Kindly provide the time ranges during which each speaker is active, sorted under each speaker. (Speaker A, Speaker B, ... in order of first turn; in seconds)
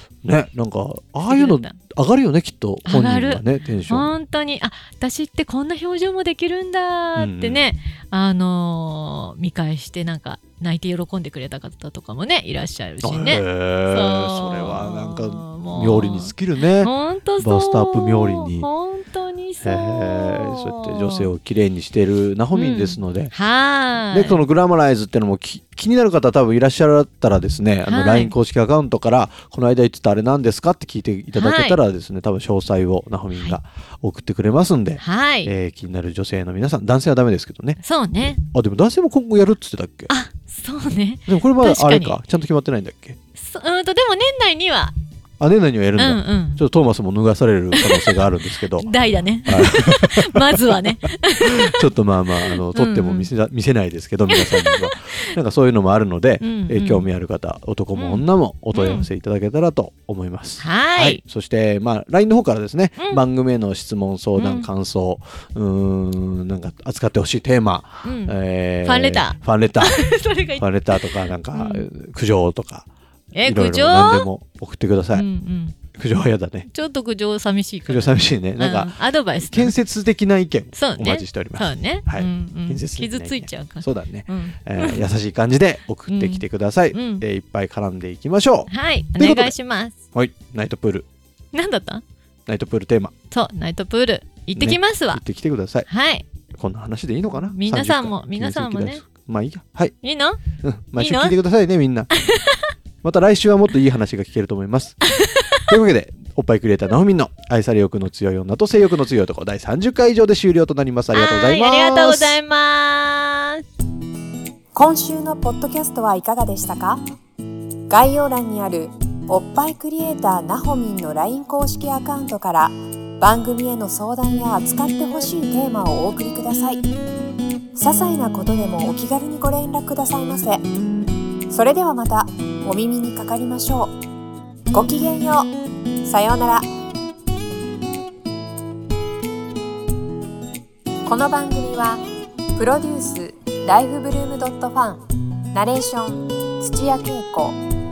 Speaker A: 0.2-4.1, 7.2-7.7, 13.0-18.7, 19.6-23.3, 24.1-37.8, 38.4-40.1, 41.3-43.2, 45.4-48.9, 49.5-70.1, 70.6-72.9, 73.4-75.2, 76.0-76.7, 77.9-78.9, 79.5-89.5, 90.1-91.1, 92.5-93.1, 94.5-95.9, 96.6-100.0, 100.6-102.1, 103.0-105.0, 105.7-112.4
Speaker B: 1.2-1.8, 2.9-21.3, 22.5-24.4, 27.9-28.4, 31.3-31.8, 35.0-35.5, 37.8-38.4, 40.1-42.2, 43.4-45.0, 46.0-46.6, 47.7-51.9, 52.5-53.3, 54.3-55.3, 56.4-57.1, 58.0-59.1, 60.6-61.2, 64.4-64.7, 68.0-71.9, 73.3-74.3, 75.1-75.8, 76.7-79.8, 80.7-85.1, 86.1-87.2, 88.7-90.0, 91.5-92.0, 93.3-95.2, 95.9-96.3, 97.3-99.0, 100.0-100.4, 101.0-101.4, 102.1-102.7, 105.1-105.8, 111.1-113.6
Speaker C: 114.8-117.0, 117.9-126.8, 127.7-130.7, 131.5-133.9, 134.7-135.5, 136.0-136.7, 141.1-142.0, 142.6-147.6